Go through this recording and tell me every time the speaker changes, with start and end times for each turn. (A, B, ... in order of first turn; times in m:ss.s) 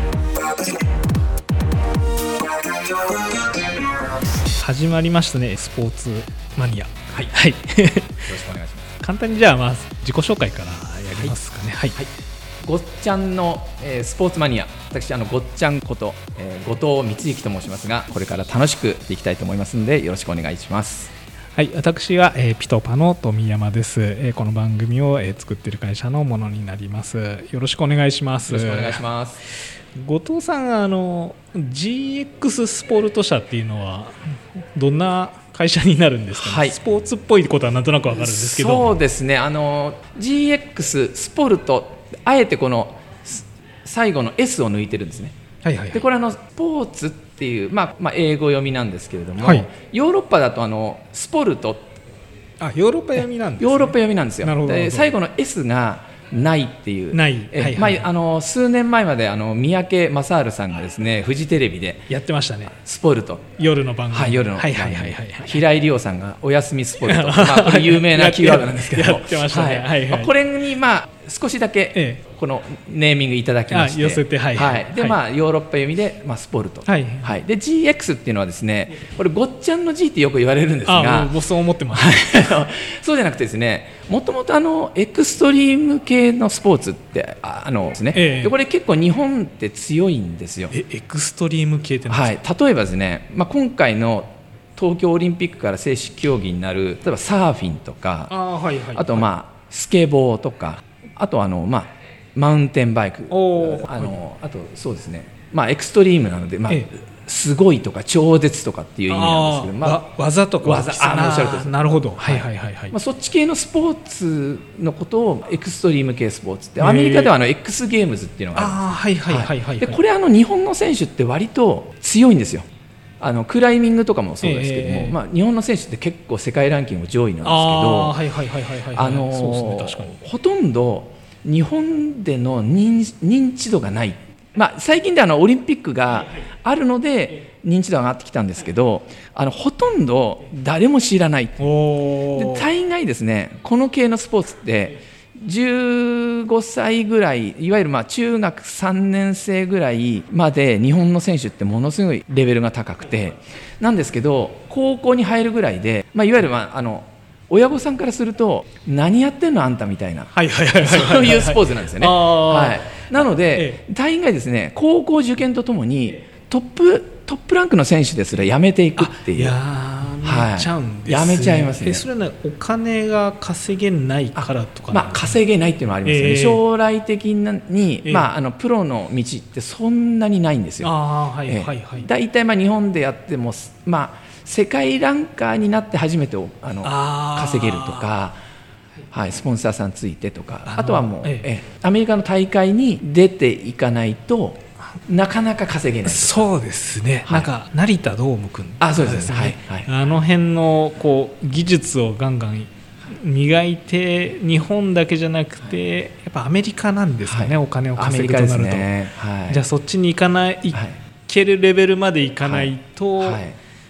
0:04.6-0:08.4 A
0:08.2-0:08.9 B
0:09.0-0:12.0 A
0:12.6-0:21.1 B
0:21.6-0:29.0 A
0:28.5-0:29.4 B
0:30.0-0:34.2 A
0:34.8-0:39.0 A
0:36.3-0:36.8 B
0:38.2-0:45.4 B
0:45.6-0:46.0 A
0:45.9-0:51.9 B
0:49.4-0:49.7 A
0:52.6-0:55.1 A
0:53.6-1:02.1 B
0:57.1-0:58.1 A
1:02.1-1:02.7 A
1:02.7-1:03.5 B
1:03.6-1:05.6 A
1:04.1-1:21.4 B
1:07.0-1:10.3 A
1:12.0-1:12.2 A
1:13.7-1:15.2 A
1:16.9-1:17.3 A
1:20.8-1:22.5 A
1:21.9-1:30.7 B
1:28.1-1:28.5 A
1:30.7-1:32.4 A
1:32.1-1:38.3 B
1:38.3-1:39.3 A
1:38.9-1:50.0 B
1:43.3-1:44.1 A
1:49.1-1:53.0 A
1:50.6-2:02.7 B
1:56.8-1:57.3 A
1:58.6-2:00.0 A
2:03.2-2:08.2 B
2:04.4-2:05.2 A
2:07.4-2:10.2 A
2:08.9-2:21.6 B
2:21.6-2:22.7 A
2:22.3-2:49.6 B
2:40.3-2:43.8 A
2:49.0-2:55.4 A
2:50.2-2:52.0 B
2:54.4-3:00.9 B
2:56.0-2:56.6 A
2:58.0-2:58.3 A
3:00.8-3:02.1 A
3:01.5-3:08.4 B
3:06.8-3:08.1 A
3:09.1-3:16.5 B
3:10.7-3:11.5 A
3:16.1-3:28.9 A
3:18.8-3:19.9 B
3:27.2-3:29.6 B
3:29.5-3:33.4 A
3:32.4-3:33.6 B